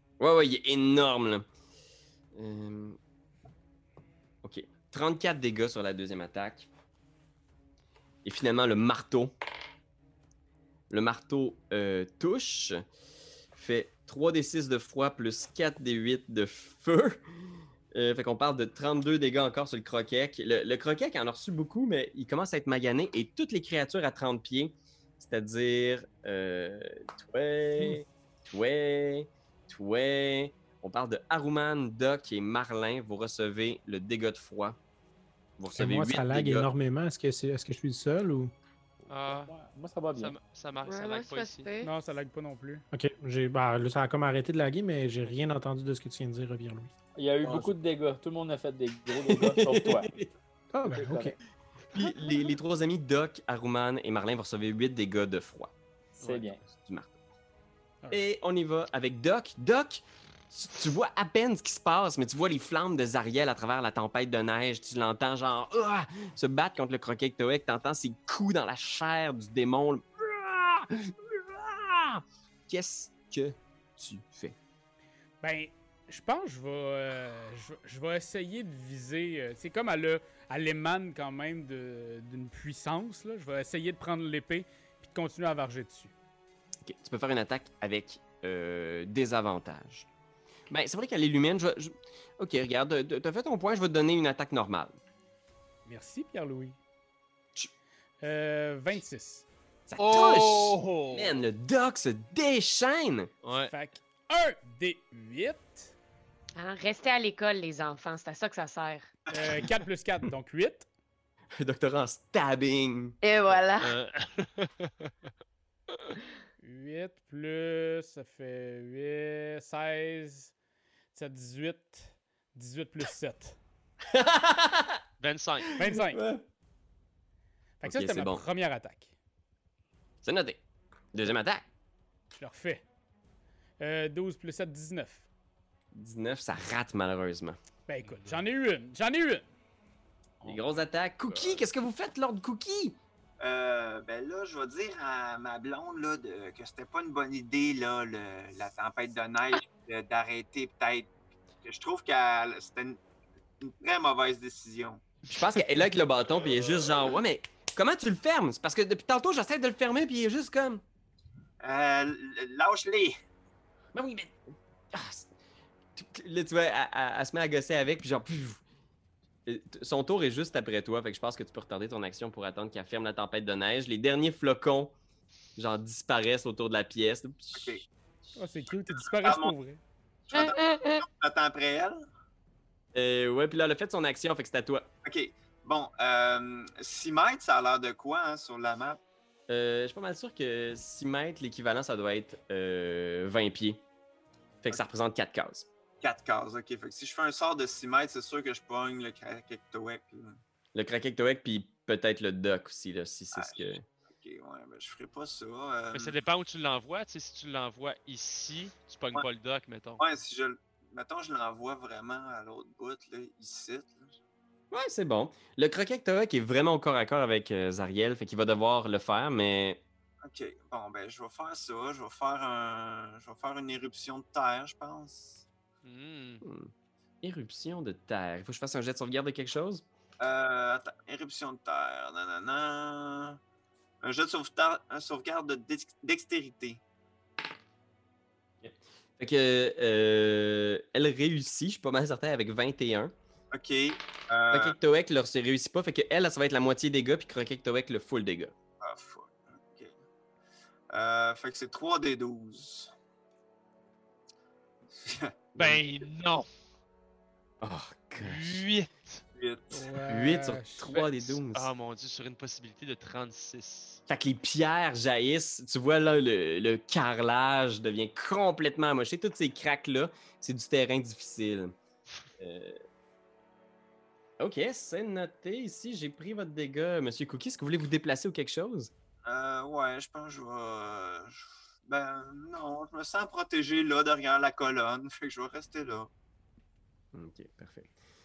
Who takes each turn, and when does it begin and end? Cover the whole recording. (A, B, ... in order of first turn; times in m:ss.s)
0:00.2-0:01.5 A
0:02.3-0:03.0 A
0:04.4-0:06.7 A
0:08.2-0:09.3 A
0:10.9-0:12.8 A
0:13.6-0:17.2 A
0:17.9-0:34.8 A
0:35.6-0:36.7 A
0:35.7-0:38.5 B
0:39.0-0:40.3 C
0:39.1-0:39.5 D
0:40.2-0:41.7 D
0:40.9-0:41.9 E
0:41.8-0:42.9 F
0:42.9-0:46.9 B
0:47.2-0:50.2 C
0:47.4-0:47.7 A
0:49.1-0:50.3 A
0:50.7-0:51.4 B
0:50.9-0:51.4 C
0:51.9-0:55.7 A
0:56.2-0:56.6 C
0:56.2-0:56.5 D
0:56.7-0:57.2 A
0:58.1-1:14.6 A
1:15.4-1:26.1 F
1:26.8-1:30.1 A
1:30.7-1:35.0 A
1:35.8-1:36.8 F
1:38.2-1:39.5 F
1:39.9-1:43.3 A
1:40.0-1:40.8 D
1:43.4-1:43.7 D
1:43.7-1:45.9 F
1:46.6-1:49.1 E
1:49.3-1:50.9 F
1:51.6-1:53.2 A
1:53.2-1:53.9 E
1:53.5-1:55.1 D
1:56.6-2:00.5 F
2:01.1-2:03.6 F
2:04.1-2:05.0 A
2:05.2-2:05.8 D
2:05.8-2:06.2 F
2:05.8-2:06.4 A
2:07.8-2:09.1 F
2:07.8-2:08.4 A
2:10.2-2:10.6 A
2:11.1-2:11.6 A
2:12.4-2:12.8 F
2:13.8-2:15.3 F
2:15.9-2:17.6 A
2:17.9-2:19.4 F
2:20.4-2:23.0 A
2:23.4-2:31.1 G
2:31.6-2:33.0 G
2:33.6-2:35.0 G
2:35.3-2:40.8 A
2:41.6-2:43.2 G
2:43.9-2:44.4 A
2:44.9-2:45.3 A
2:46.0-2:48.6 A
2:49.5-2:54.9 A
2:55.6-2:57.9 A
2:57.6-2:57.8 G
2:58.4-2:59.8 F
2:58.9-2:59.5 G
3:00.3-3:02.0 G
3:00.3-3:01.0 E
3:02.9-3:04.9 A
3:05.0-3:09.0 G
3:09.5-3:13.8 A
3:14.6-3:15.7 A
3:16.0-3:20.4 G
3:20.7-3:23.8 A
3:24.1-3:26.2 G
3:25.9-3:30.0 D
3:30.0-3:34.1 G
3:34.7-3:39.8 A
3:40.2-3:45.4 G
3:45.8-3:46.4 D
3:46.4-3:46.7 A
3:47.2-3:49.8 A
3:50.2-3:53.4 G
3:54.0-3:56.8 G
3:58.6-4:03.1 A
4:03.5-4:04.8 G
4:04.5-4:08.5 A
4:08.8-4:09.9 G
4:10.9-4:12.9 G
4:14.9-4:15.8 G
4:15.6-4:16.5 D
4:17.6-4:18.7 A
4:18.2-4:19.2 D
4:19.4-4:20.0 G
4:19.7-4:21.0 F
4:20.1-4:21.7 A
4:20.9-4:24.0 D
4:24.1-4:31.8 A
4:32.4-4:32.8 A
4:34.4-4:38.9 A
4:39.3-4:46.1 G
4:47.1-4:47.9 A